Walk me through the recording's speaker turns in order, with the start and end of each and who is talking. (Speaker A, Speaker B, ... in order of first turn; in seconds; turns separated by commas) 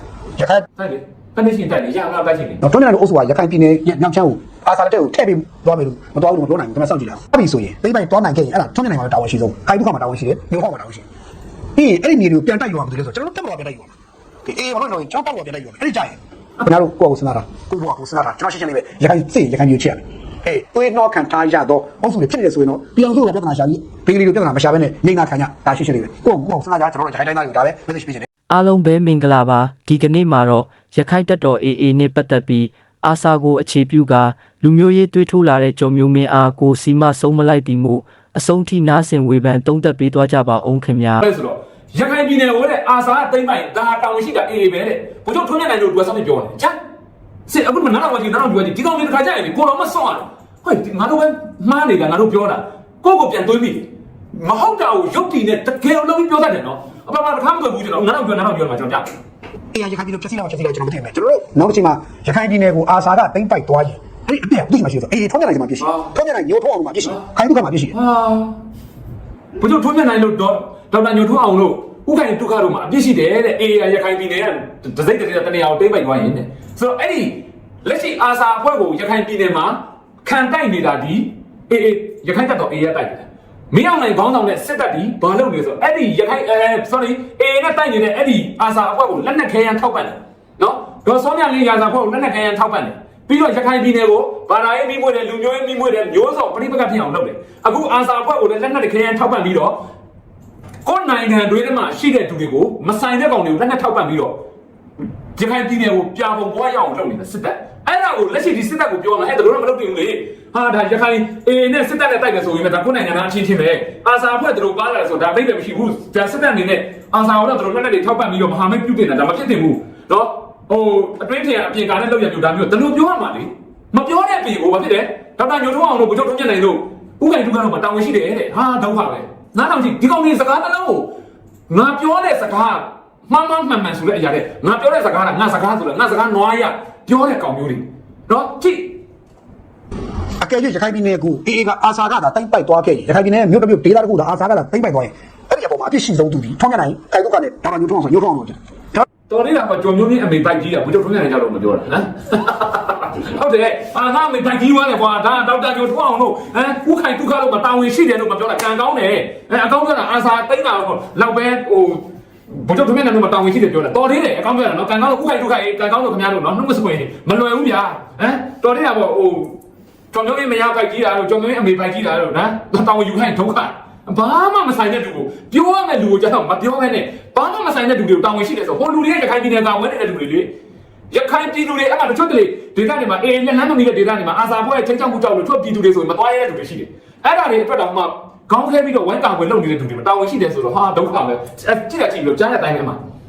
Speaker A: 0.4-0.7, Speaker B: 0.8-2.6, Speaker A: 2.6-11.0, Speaker A: 11.8-13.9, Speaker A: 14.4-28.2, Speaker C: 28.5-41.2, Speaker B: 41.2-46.8, Speaker B: 47.5-59.1, Speaker A: 59.7-67.9, Speaker B: 65.8-66.1, Speaker B: 67.9-68.6, Speaker B: 69.6-99.8, Speaker B: 100.8-104.4, Speaker B: 105.3-131.1, Speaker B: 131.7-139.0, Speaker A: 140.4-149.1, Speaker B: 149.3-169.6, Speaker B: 170.1-180.5, Speaker B: 181.1-193.0